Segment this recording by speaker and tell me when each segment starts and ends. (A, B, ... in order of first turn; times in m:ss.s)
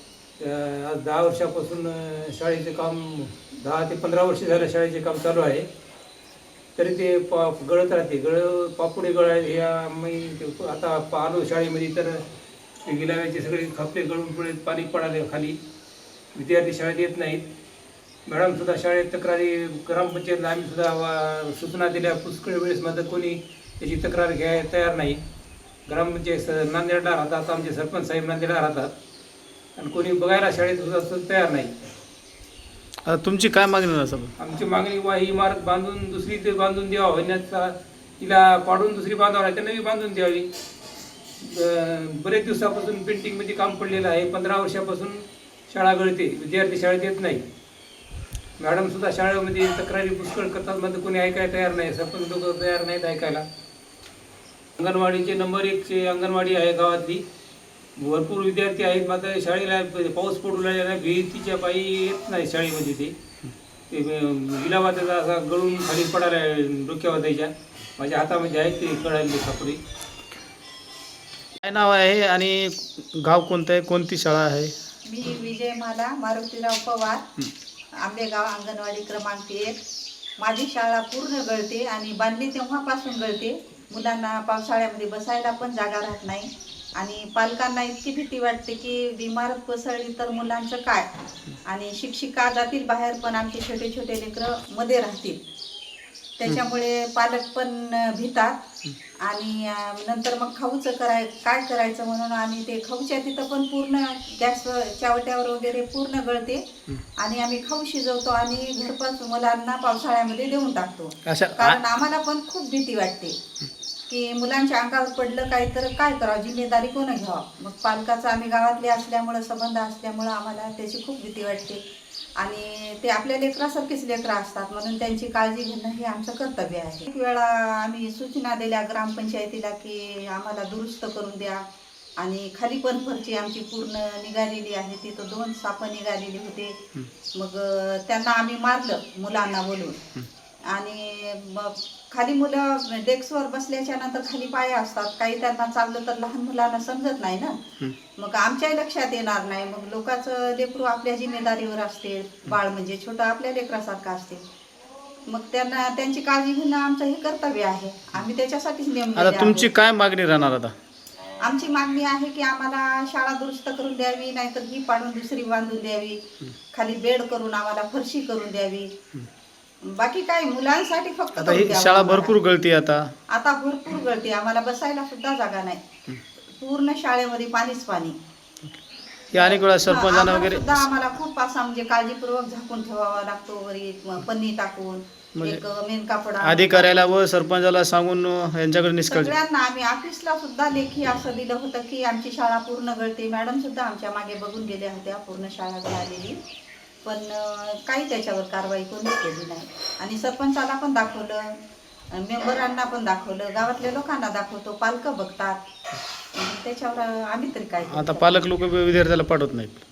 0:00.4-0:05.6 A
0:06.8-0:12.2 A
0:12.8-0:15.6 A
0:16.3-0:17.4 A
0:18.2-0:25.2 A
0:25.9-0:28.9 A
0:29.8-0:31.9 A
0:33.0-0:34.3 B
0:34.4-0:40.5 A
0:41.4-0:47.4 A
0:48.6-0:53.4 A
0:54.8-0:57.2 A
0:58.0-1:03.1 A
1:03.9-1:09.8 A
1:11.6-1:14.7 B
1:15.0-1:17.2 C
1:18.0-1:19.8 C
1:20.4-1:31.0 C
1:31.6-1:35.4 C
1:36.4-1:38.6 C
1:39.2-1:46.6 C
1:47.2-1:53.4 C
1:51.2-1:51.8 B
1:54.1-2:01.8 C
2:02.4-2:11.6 C
2:12.2-2:16.8 C
2:17.3-2:20.0 C
2:20.7-2:27.6 C
2:28.2-2:34.4 C
2:35.3-2:39.7 C
2:39.2-2:40.7 B
2:41.4-2:46.2 C
2:46.7-2:48.9 C
2:49.8-2:52.3 C
2:51.4-2:53.1 B
2:53.3-2:55.8 C
2:56.6-2:58.2 C
2:59.3-3:00.8 B
2:59.3-3:07.0 C
3:06.4-3:09.3 B
3:09.1-3:16.4 C
3:17.0-3:21.5 C
3:22.1-3:25.6 C
3:26.4-3:28.4 C
3:27.9-3:29.8 B